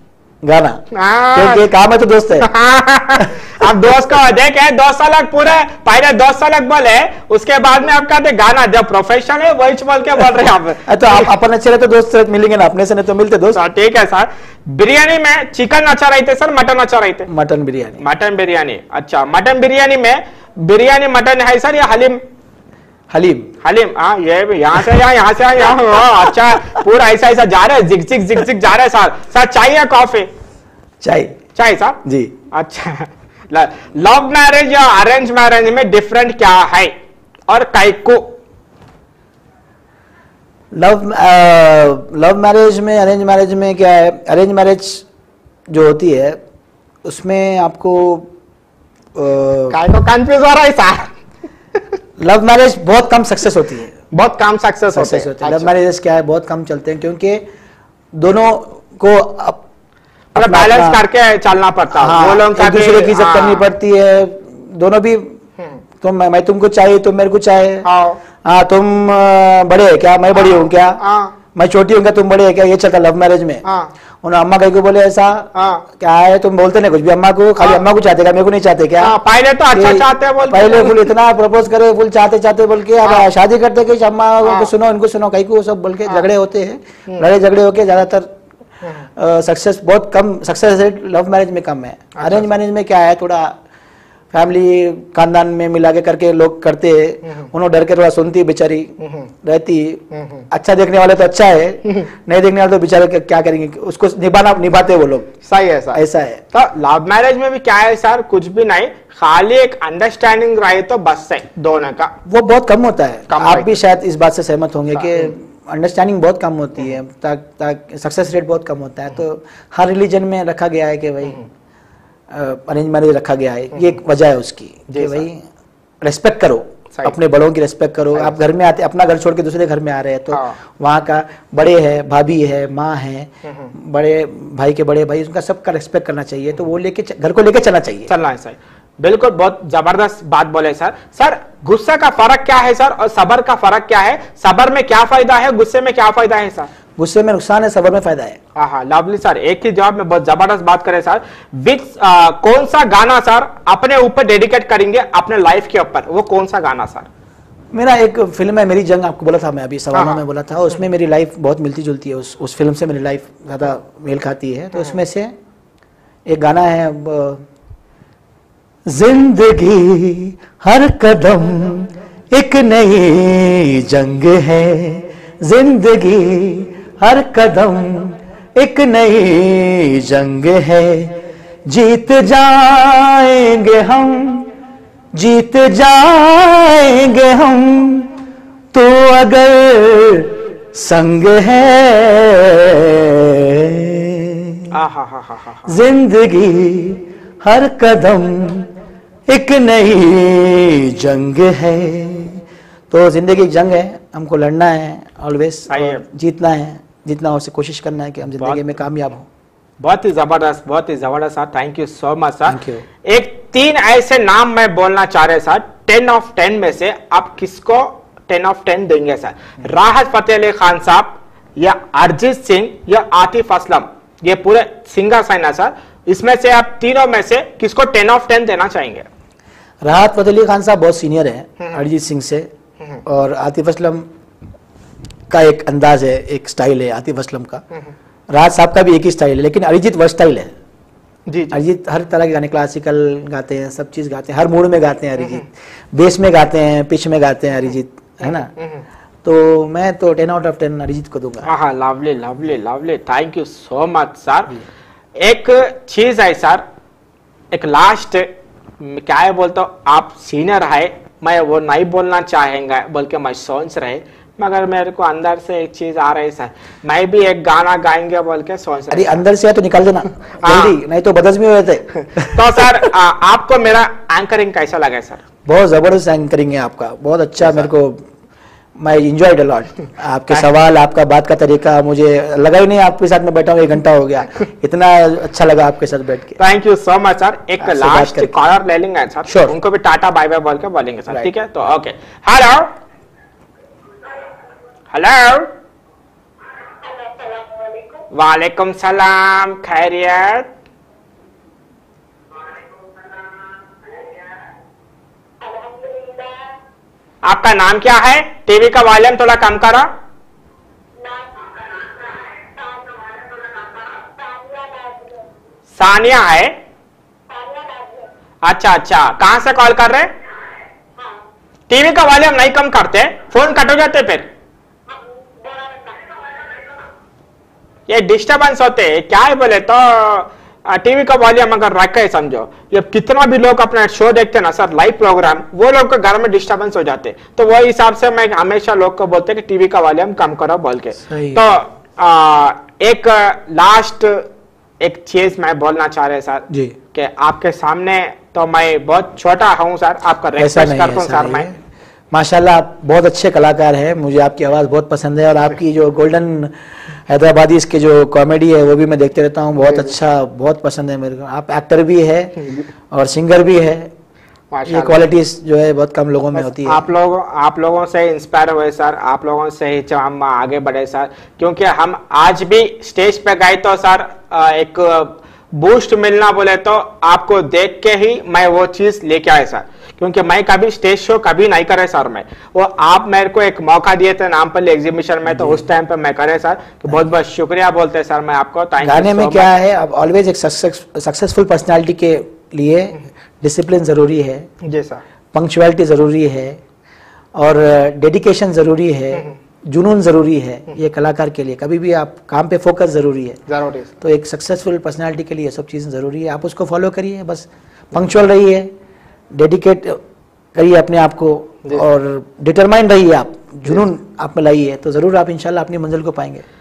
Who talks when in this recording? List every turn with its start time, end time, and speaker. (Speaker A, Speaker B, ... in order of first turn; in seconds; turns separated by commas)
Speaker A: 0.4-0.8, Speaker B: 0.9-1.6, Speaker A: 1.3-2.5, Speaker B: 2.4-11.3, Speaker A: 10.9-13.6, Speaker B: 13.5-17.3, Speaker A: 17.3-18.0, Speaker B: 18.0-22.2, Speaker A: 23.1-23.5, Speaker B: 23.6-30.3, Speaker A: 31.0-31.4, Speaker B: 31.5-32.0, Speaker A: 32.0-32.3, Speaker B: 32.5-36.9, Speaker B: 37.5-38.4, Speaker A: 40.7-45.0, Speaker A: 45.7-46.4, Speaker A: 47.0-48.3, Speaker A: 49.1-49.8, Speaker B: 49.7-51.1, Speaker A: 52.2-53.9, Speaker B: 54.1-55.7, Speaker A: 54.9-57.5, Speaker A: 58.1-59.6, Speaker A: 60.3-61.0, Speaker B: 60.3-63.7, Speaker A: 62.0-65.4, Speaker A: 66.0-67.8, Speaker B: 67.8-68.2, Speaker A: 68.4-71.0, Speaker B: 70.3-71.3, Speaker A: 71.5-73.6, Speaker B: 73.6-73.9, Speaker A: 74.2-79.2, Speaker B: 75.5-75.8, Speaker B: 77.6-77.8, Speaker B: 79.0-81.1, Speaker A: 79.7-88.3, Speaker B: 83.0-83.3, Speaker B: 84.4-84.7, Speaker A: 89.2-93.6, Speaker B: 92.2-92.5, Speaker A: 94.3-105.3, Speaker B: 97.2-97.5, Speaker B: 99.0-99.3, Speaker B: 100.1-100.5, Speaker B: 105.4-106.0, Speaker A: 105.9-106.4, Speaker B: 106.5-112.1, Speaker A: 112.2-121.4, Speaker B: 113.3-113.8, Speaker B: 115.0-115.3, Speaker A: 122.3-125.4, Speaker B: 123.7-124.0, Speaker B: 124.9-125.2, Speaker A: 126.0-138.1, Speaker B: 130.3-130.6, Speaker B: 133.4-133.7, Speaker B: 138.1-146.7, Speaker A: 147.0-148.4, Speaker B: 148.6-157.1, Speaker A: 157.7-165.3, Speaker B: 159.9-160.2, Speaker A: 166.3-167.4, Speaker A: 168.9-184.5, Speaker A: 185.1-188.1, Speaker A: 188.7-194.7, Speaker B: 194.7-195.7, Speaker A: 195.7-198.7, Speaker A: 199.3-209.3, Speaker B: 205.7-206.0, Speaker B: 208.4-208.7, Speaker B: 209.8-229.1, Speaker A: 212.5-212.8, Speaker A: 229.8-232.5, Speaker A: 233.0-234.1, Speaker A: 235.3-237.6, Speaker A: 238.3-240.5, Speaker B: 241.3-241.6, Speaker A: 241.5-248.5, Speaker B: 245.2-245.4, Speaker B: 248.2-248.8, Speaker A: 249.2-251.5, Speaker B: 251.4-254.5, Speaker B: 255.2-256.6, Speaker B: 257.5-269.2, Speaker A: 268.9-272.6, Speaker B: 270.4-270.8, Speaker B: 272.1-275.2, Speaker A: 275.4-278.0, Speaker A: 278.8-286.4, Speaker B: 286.4-292.7, Speaker A: 287.6-288.4, Speaker A: 289.3-289.5, Speaker B: 294.9-295.5, Speaker C: 296.6-298.1, Speaker B: 298.1-300.5, Speaker C: 302.3-304.3, Speaker C: 305.4-306.5, Speaker B: 307.2-309.9, Speaker C: 311.0-315.3, Speaker B: 315.8-316.5, Speaker C: 317.3-318.1, Speaker B: 318.4-320.1, Speaker C: 320.9-321.2, Speaker B: 321.7-324.3, Speaker C: 324.9-326.9, Speaker B: 327.9-344.3, Speaker A: 341.0-341.4, Speaker B: 344.8-351.5, Speaker A: 346.5-346.8, Speaker A: 350.4-351.6, Speaker A: 352.1-362.4, Speaker B: 359.6-359.9, Speaker A: 362.9-363.9, Speaker B: 364.5-365.0, Speaker A: 364.7-366.9, Speaker B: 366.3-389.5, Speaker A: 385.3-385.6, Speaker A: 388.8-394.5, Speaker B: 394.6-395.0, Speaker A: 395.3-396.6, Speaker A: 397.4-403.4, Speaker B: 403.5-403.9, Speaker A: 404.0-408.7, Speaker A: 409.3-410.0, Speaker A: 410.5-416.4